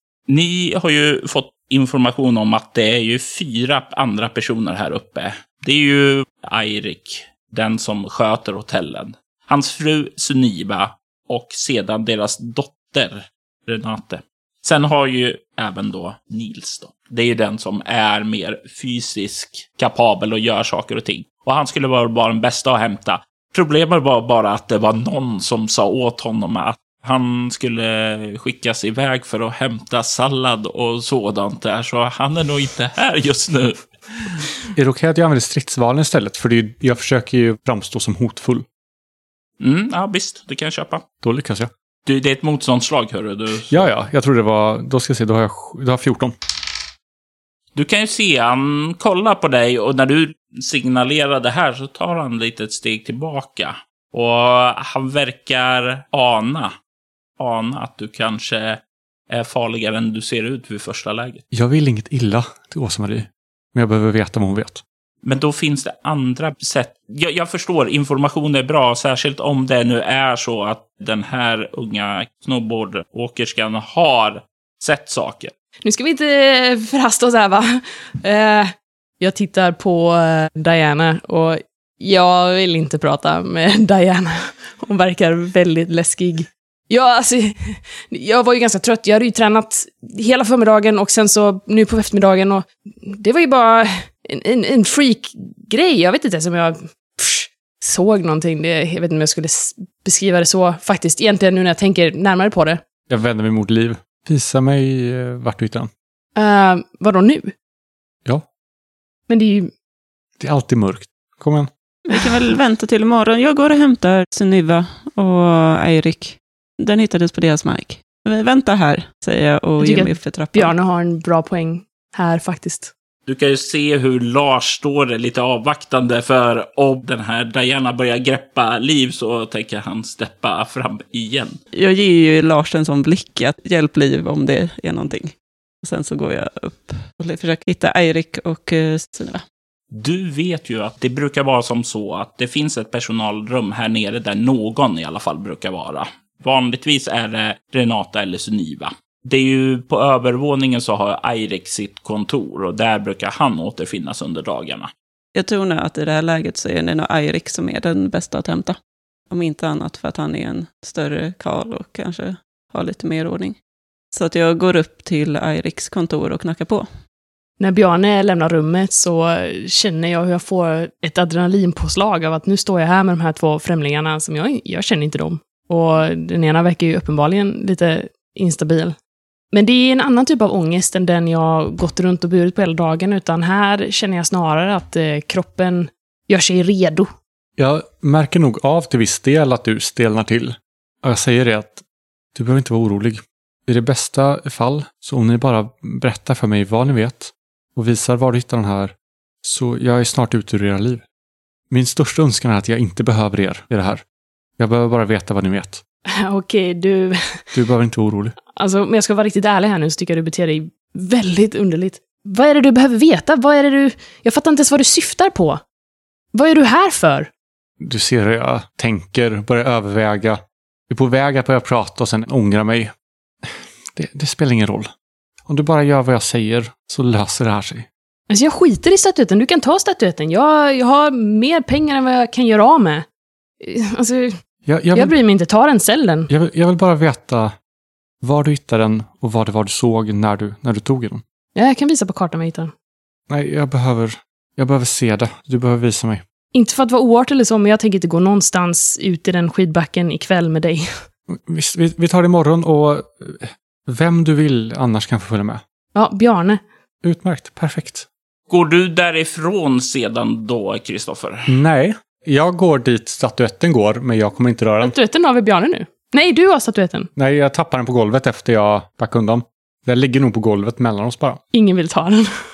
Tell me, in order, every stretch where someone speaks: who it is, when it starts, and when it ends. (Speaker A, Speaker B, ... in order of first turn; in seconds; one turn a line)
Speaker A: 0.3-34.5
Speaker B: 34.8-38.6
Speaker A: 39.6-41.0
Speaker B: 41.2-41.7
Speaker A: 42.0-43.9
Speaker B: 43.7-46.3
Speaker A: 47.7-56.7
Speaker A: 57.4-61.4
Speaker B: 61.5-64.8
Speaker A: 65.2-75.5
Speaker C: 75.8-102.8
Speaker B: 103.1-105.9
Speaker C: 106.3-107.5
Speaker C: 109.3-109.7
Speaker B: 110.4-111.7
Speaker D: 112.1-120.7
Speaker C: 119.8-122.9
Speaker A: 123.2-131.6
Speaker D: 131.7-139.4
Speaker A: 139.9-154.9
Speaker D: 155.3-158.8
Speaker D: 159.3-163.6
Speaker D: 164.1-166.9
Speaker C: 167.6-178.9
Speaker C: 179.5-187.1
Speaker B: 187.6-191.8
Speaker B: 192.3-201.0
Speaker B: 201.7-204.0
Speaker B: 204.6-205.8
Speaker C: 206.1-207.4
Speaker B: 207.5-208.3
Speaker C: 208.5-215.6
Speaker C: 216.3-217.3
Speaker B: 217.8-222.9
Speaker B: 223.5-224.9
Speaker B: 225.5-227.9
Speaker C: 228.3-233.1
Speaker C: 233.6-234.4
Speaker B: 234.7-235.2
Speaker C: 234.9-236.3
Speaker B: 236.3-237.5
Speaker B: 238.2-241.2
Speaker C: 241.5-242.7
Speaker B: 243.3-246.2
Speaker C: 246.5-250.9
Speaker B: 251.3-255.6
Speaker C: 255.9-256.6
Speaker B: 257.0-258.1
Speaker A: 258.5-261.6
Speaker B: 261.5-264.9
Speaker C: 264.8-267.1
Speaker B: 267.1-271.4
Speaker C: 271.5-272.3